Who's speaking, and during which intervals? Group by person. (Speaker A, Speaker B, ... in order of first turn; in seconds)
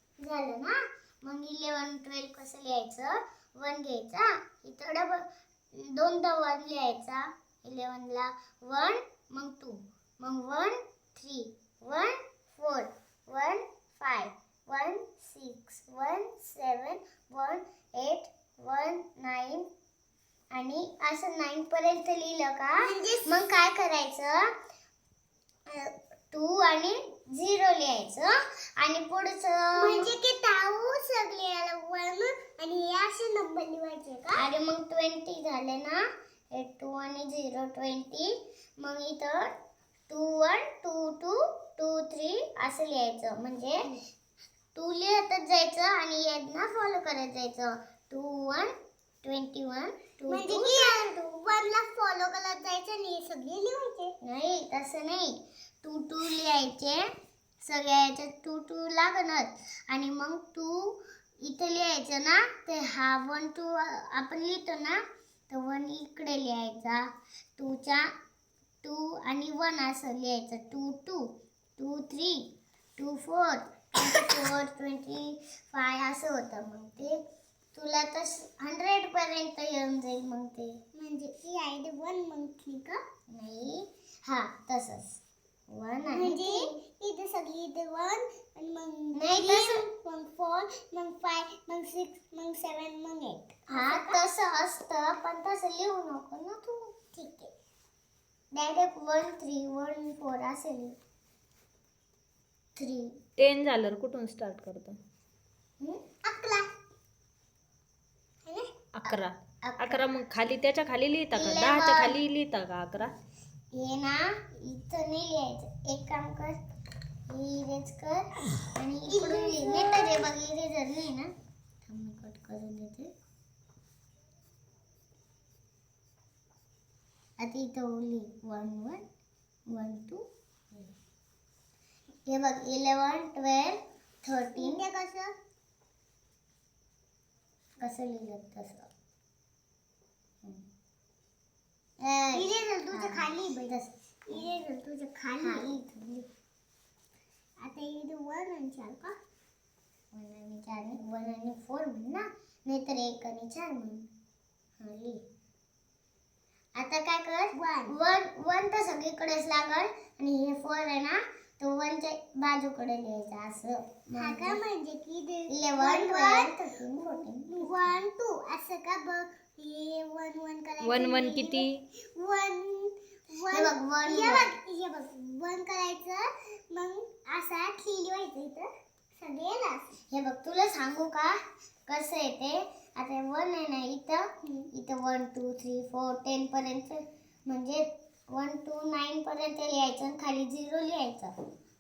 Speaker A: 0.2-19.7, 20.5-24.4, 25.7-30.1, 34.3-36.0, 36.5-39.5, 40.1-43.8, 44.8-48.7, 49.2-50.9, 54.2-57.1, 57.6-67.1, 67.6-68.1, 68.8-71.3, 71.8-72.4, 73.0-77.2, 77.7-80.7, 83.3-85.2, 85.7-86.6, 89.2-89.8, 93.7-96.9, 98.5-101.0, 102.8-103.1, 109.6-110.1, 111.3-112.2, 113.7-116.6, 117.3-121.3, 121.8-123.1, 127.4-129.0, 129.7-130.9, 132.3-134.8, 137.8-138.9, 142.0-144.5, 145.4-146.3, 150.1-154.1, 154.8-155.2, 156.8-164.6, 165.5-168.0, 173.5-174.5, 180.1-181.4, 181.9-191.3
Speaker B: 22.8-23.4, 29.8-34.4, 50.3-54.2, 81.0-83.0, 86.1-94.2, 97.1-97.5, 106.2-106.7, 108.4-108.8, 119.1-120.3, 134.6-135.3, 142.3-143.7, 144.3-145.7, 147.6-149.2, 157.5-157.9, 164.2-180.0, 184.4-184.7
Speaker C: 103.4-105.0, 109.0-113.2, 170.8-171.8